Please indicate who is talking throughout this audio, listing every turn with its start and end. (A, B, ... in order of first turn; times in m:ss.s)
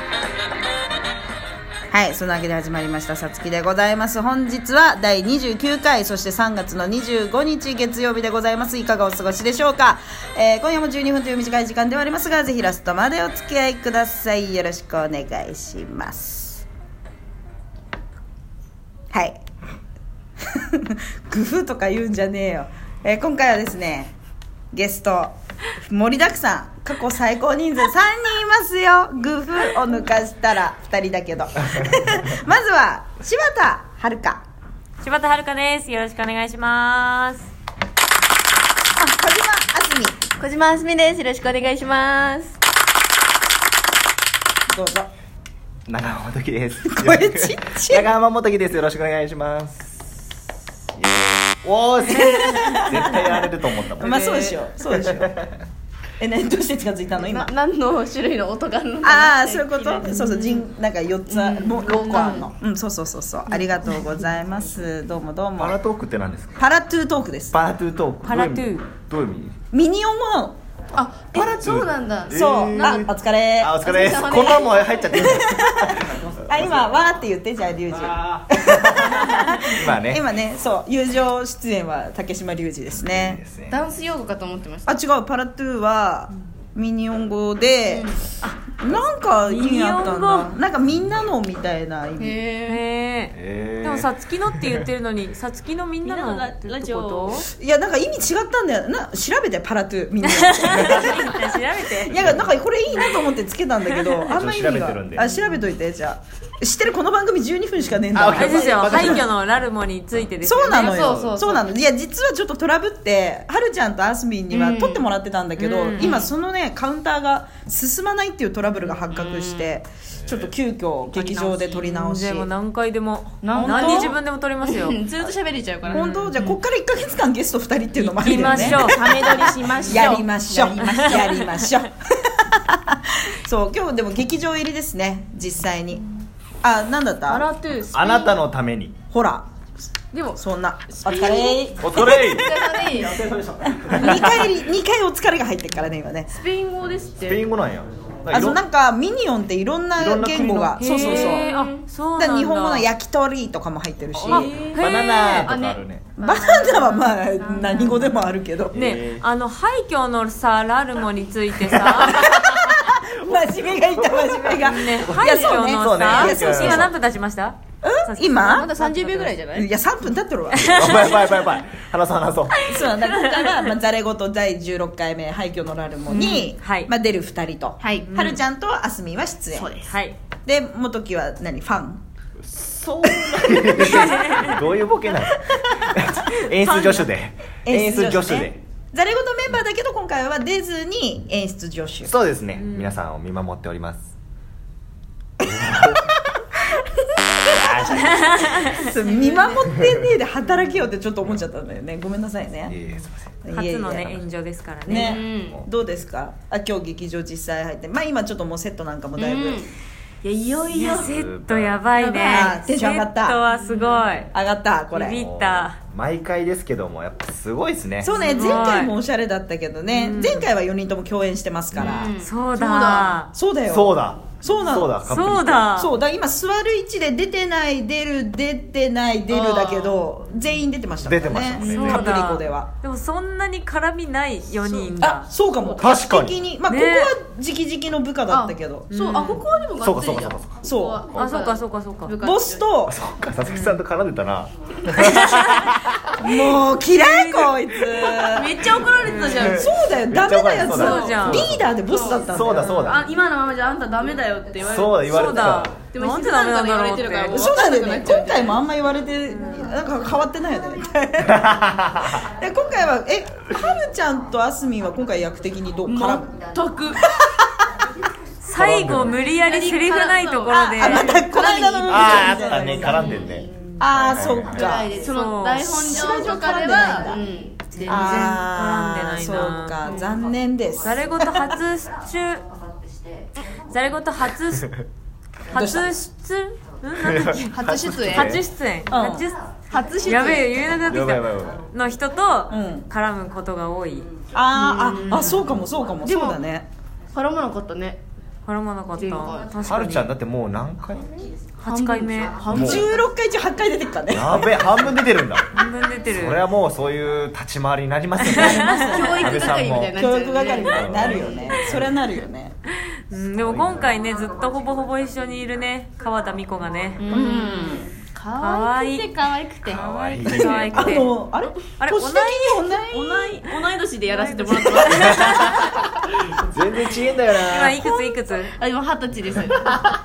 0:01.9-0:16.6 A
0:19.1-0:19.4 A
0:20.4-0:24.1 A
0:24.7-0:34.4 A
0:35.0-0:37.5 B
0:39.0-0:40.2 A
0:40.4-0:42.6 C
0:44.7-0:45.1 A
0:45.9-0:50.0 D
0:46.9-0:48.0 A
0:51.0-0:54.4 D
0:52.1-0:53.2 A
0:54.0-0:55.3 A
0:54.0-0:54.6 B
0:56.2-0:57.5 A
0:57.1-1:00.3 C
0:59.0-1:05.8 A
1:00.1-1:00.4 B
1:01.3-1:02.5 C
1:01.8-1:02.4 B
1:03.5-1:04.1 C
1:05.6-1:06.6 D
1:06.6-1:07.6 A
1:07.5-1:09.5 D
1:08.2-1:08.9 B
1:09.7-1:10.6 A
1:11.0-1:13.1 C
1:11.4-1:16.3 D
1:12.3-1:13.8 A
1:13.8-1:15.2 C
1:15.2-1:23.4 A
1:18.6-1:20.2 D
1:23.0-1:23.8 D
1:23.7-1:24.9 C
1:24.9-1:28.1 A
1:27.8-1:28.2 C
1:28.8-1:32.4 A
1:29.4-1:30.5 B
1:32.2-1:32.8 C
1:32.7-1:37.4 B
1:33.3-1:34.1 D
1:36.0-1:37.4 C
1:37.5-1:41.4 A
1:40.4-1:42.3 B
1:42.0-1:49.2 A
1:42.2-1:42.4 D
1:44.3-1:45.2 D
1:48.1-1:49.3 D
1:48.2-1:51.2 B
1:50.4-2:02.5 A
1:50.7-1:51.7 C
1:54.5-1:55.1 C
1:55.6-1:56.1 B
1:56.0-1:56.3 C
1:58.9-1:59.7 C
2:01.1-2:01.9 C
2:01.8-2:05.0 B
2:03.4-2:06.6 C
2:03.6-2:04.1 A
2:05.9-2:06.3 B
2:05.9-2:16.0 A
2:08.0-2:10.0 B
2:08.3-2:11.4 C
2:11.0-2:11.7 B
2:16.6-2:17.4 A
2:17.3-2:18.4 C
2:17.9-2:19.0 D
2:19.1-2:19.5 A
2:20.1-2:23.4 C
2:20.4-2:22.4 A
2:21.8-2:22.5 D
2:23.6-2:24.3 D
2:23.7-2:26.3 A
2:26.3-2:27.5 C
2:27.2-2:28.6 D
2:28.3-2:31.5 A
2:30.0-2:30.9 D
2:30.8-2:32.9 B
2:30.9-2:31.8 C
2:32.1-2:34.5 A
2:34.2-2:34.9 C
2:34.3-2:36.0 D
2:34.3-2:35.5 B
2:35.4-2:38.3 C
2:36.2-2:38.8 A
2:37.6-2:38.0 B
2:38.7-2:42.3 B
2:38.7-2:39.2 D
2:41.7-2:42.7 D
2:42.0-2:46.9 A
2:44.3-2:49.3 B
2:45.1-2:46.9 D
2:47.8-2:48.7 A
2:48.5-2:49.7 C
2:49.5-2:51.2 A
2:50.7-2:51.1 B
2:50.7-2:52.6 D
2:52.6-2:59.7 A
2:53.0-2:53.6 B
2:56.1-2:56.5 C
2:56.6-2:56.9 B
2:57.8-2:58.0 C
2:58.0-2:58.4 B
2:59.5-2:59.9 C
2:59.8-3:00.2 B
3:00.4-3:02.0 A
3:02.6-3:08.6 D
3:03.0-3:04.3 A
3:03.8-3:04.6 B
3:06.3-3:07.1 B
3:07.6-3:12.1 A
3:12.0-3:14.0 D
3:17.3-3:18.1 A
3:17.5-3:18.5 D
3:18.2-3:19.5 B
3:18.6-3:22.8 A
3:22.7-3:23.4 D
3:23.4-3:24.2 A
3:23.5-3:25.2 B
3:24.8-3:29.6 A
3:24.9-3:25.6 C
3:29.2-3:29.7 C
3:30.2-3:31.1 C
3:30.7-3:34.3 B
3:30.8-3:31.8 D
3:31.9-3:32.6 C
3:32.2-3:33.4 A
3:33.5-3:34.0 C
3:34.3-3:35.2 A
3:34.9-3:35.8 B
3:35.2-3:38.1 D
3:38.0-3:42.1 A
3:38.1-3:38.9 B
3:39.9-3:40.5 B
3:41.8-3:43.2 C
3:42.2-3:43.3 B
3:43.3-3:44.9 A
3:43.7-3:45.7 D
3:44.5-3:45.9 B
3:45.7-3:52.7 A
3:49.3-3:50.0 C
3:51.0-3:52.1 D
3:51.6-3:52.1 C
3:51.7-3:55.3 B
3:54.7-3:58.9 A
3:55.8-3:56.4 D
3:56.7-3:57.1 B
3:58.3-4:02.7 C
3:58.9-3:59.4 B
3:59.8-4:00.5 D
4:00.6-4:01.0 A
4:01.2-4:02.1 B
4:02.2-4:03.0 A
4:02.9-4:05.9 D
4:03.5-4:03.8 B
4:05.0-4:05.7 B
4:06.2-4:08.5 A
4:06.9-4:08.2 B
4:08.0-4:09.9 C
4:09.0-4:09.6 B
4:09.2-4:11.6 D
4:09.4-4:12.8 A
4:10.7-4:11.5 B
4:10.7-4:12.3 C
4:12.3-4:13.0 D
4:12.5-4:13.1 B
4:12.8-4:18.6 C
4:14.6-4:15.7 D
4:15.0-4:17.5 B
4:17.3-4:21.5 A
4:19.3-4:19.7 B
4:21.3-4:22.1 D
4:22.0-4:26.3 A
4:25.8-4:27.0 C
4:26.9-4:27.4 A
4:28.4-4:31.3 B
4:28.6-4:29.2 D
4:29.2-4:33.5 C
4:30.5-4:33.2 A
4:31.9-4:34.6 D
4:33.8-4:35.0 A
4:34.4-4:38.4 C
4:35.0-4:36.4 B
4:35.6-4:37.2 A
4:37.8-4:40.0 B
4:37.8-4:41.5 A
4:39.8-4:40.2 C
4:40.8-4:42.4 B
4:43.7-4:44.7 B
4:45.5-4:47.6 B
4:45.5-4:45.9 A
4:47.0-4:48.4 D
4:47.5-4:48.4 C
4:48.1-4:49.4 B
4:48.9-4:49.3 A
4:49.7-4:50.7 C
4:50.0-4:54.1 B
4:50.8-4:51.6 D
4:52.5-4:52.9 A
4:54.3-4:56.6 A
4:54.5-4:55.5 C
4:56.0-4:56.4 C
4:57.1-4:58.0 C
4:58.4-5:00.1 B
4:59.0-4:59.5 C
4:59.6-5:01.3 D
5:01.6-5:02.4 B
5:01.6-5:03.1 C
5:02.5-5:02.9 D
5:02.5-5:04.6 A
5:04.1-5:05.4 D
5:04.3-5:04.8 B
5:05.5-5:06.4 B
5:06.1-5:09.9 D
5:08.2-5:09.3 B
5:08.4-5:11.7 C
5:10.0-5:12.5 A
5:10.7-5:11.8 D
5:13.1-5:17.0 B
5:13.4-5:13.7 D
5:17.0-5:20.5 C
5:17.1-5:17.9 A
5:18.4-5:19.1 B
5:19.7-5:21.0 D
5:19.8-5:21.1 B
5:20.2-5:23.4 A
5:21.8-5:22.7 B
5:22.9-5:25.6 C
5:24.1-5:25.6 B
5:26.4-5:27.8 D
5:27.4-5:28.5 B
5:27.7-5:29.9 C